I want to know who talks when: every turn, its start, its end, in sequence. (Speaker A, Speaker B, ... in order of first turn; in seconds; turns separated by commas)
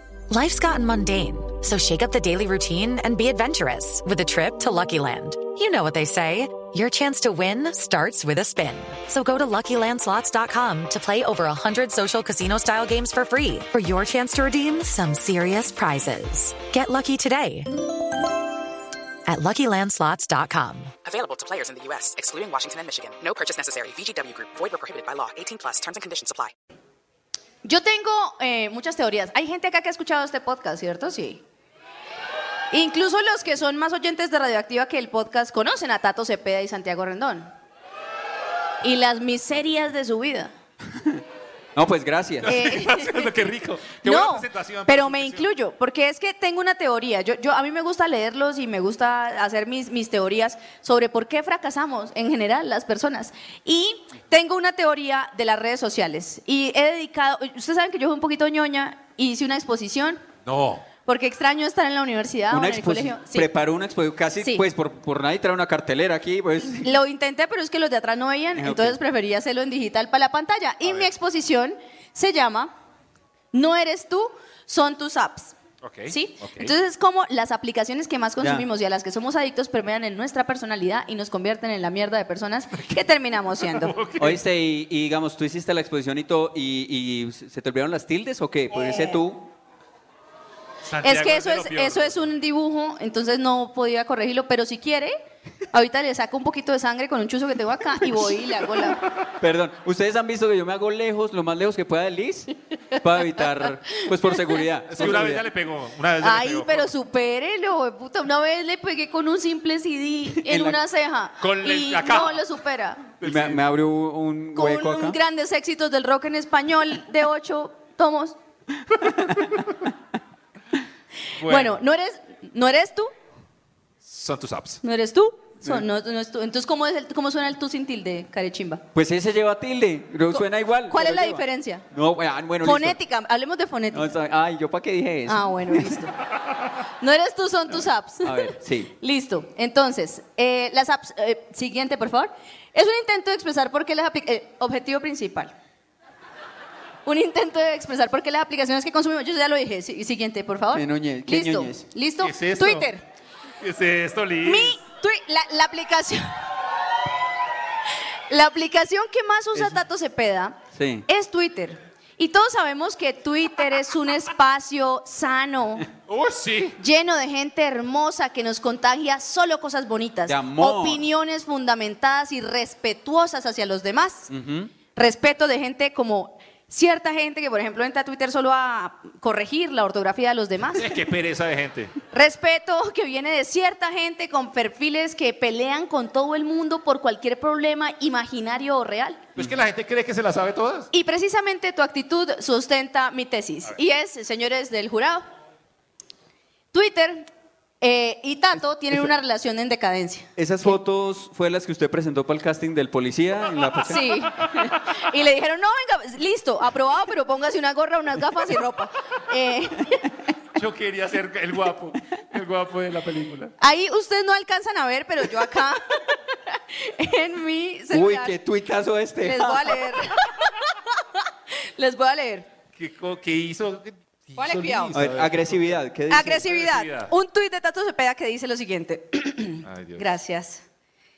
Speaker A: 0.3-17.8, Speaker A: 19.2-20.9, Speaker B: 21.0-26.5, Speaker C: 27.6-31.4, Speaker C: 32.7-37.5, Speaker C: 38.8-40.5, Speaker D: 41.0-41.2, Speaker D: 41.8-42.5, Speaker E: 42.4-45.5, Speaker C: 42.5-43.5, Speaker C: 44.0-60.2, Speaker E: 60.4-60.9, Speaker C: 61.0-63.5, Speaker D: 62.5-67.0, Speaker C: 64.4-64.6, Speaker C: 66.8-72.7, Speaker D: 68.6-69.0, Speaker E: 70.8-71.1, Speaker C: 73.5-75.5, Speaker E: 75.8-76.7, Speaker C: 76.1-83.9, Speaker D: 78.4-78.7, Speaker E: 82.8-83.0, Speaker E: 83.6-84.4, Speaker D: 84.2-89.5, Speaker C: 88.7-89.2, Speaker E: 90.8-92.3, Speaker C: 91.0-95.2, Speaker C: 95.7-99.0, Speaker D: 99.4-105.5, Speaker E: 104.9-106.9, Speaker C: 106.2-113.1, Speaker D: 110.3-110.8, Speaker E: 111.4-112.5, Speaker E: 113.2-113.6, Speaker D: 113.2-115.2, Speaker C: 114.5-118.4, Speaker D: 119.0-119.5, Speaker E: 121.4-121.8, Speaker C: 121.4-123.1, Speaker E: 124.0-124.8, Speaker C: 124.8-128.8, Speaker D: 128.9-133.0, Speaker C: 130.3-131.8, Speaker C: 132.6-134.1, Speaker D: 133.9-136.0, Speaker C: 135.3-136.2, Speaker C: 136.8-145.5, Speaker D: 138.2-138.9, Speaker C: 147.1-153.0, Speaker D: 150.7-151.8, Speaker E: 152.2-152.9, Speaker E: 153.6-154.8, Speaker C: 154.4-156.3, Speaker C: 158.3-165.8, Speaker D: 160.7-161.1, Speaker E: 166.1-166.8, Speaker C: 166.8-174.3, Speaker D: 170.3-171.0, Speaker D: 174.3-174.7, Speaker C: 174.9-180.9, Speaker E: 180.7-181.9, Speaker C: 182.1-189.3, Speaker E: 189.4-190.9, Speaker C: 190.9-195.2, Speaker C: 196.7-197.3, Speaker C: 197.8-200.8, Speaker D: 200.4-204.2, Speaker C: 203.9-210.1, Speaker E: 210.5-213.5, Speaker C: 213.6-218.3, Speaker D: 217.9-219.9, Speaker C: 219.2-222.5, Speaker E: 222.8-227.1, Speaker C: 224.4-224.9, Speaker D: 224.9-226.4, Speaker C: 226.1-230.6, Speaker E: 229.6-230.1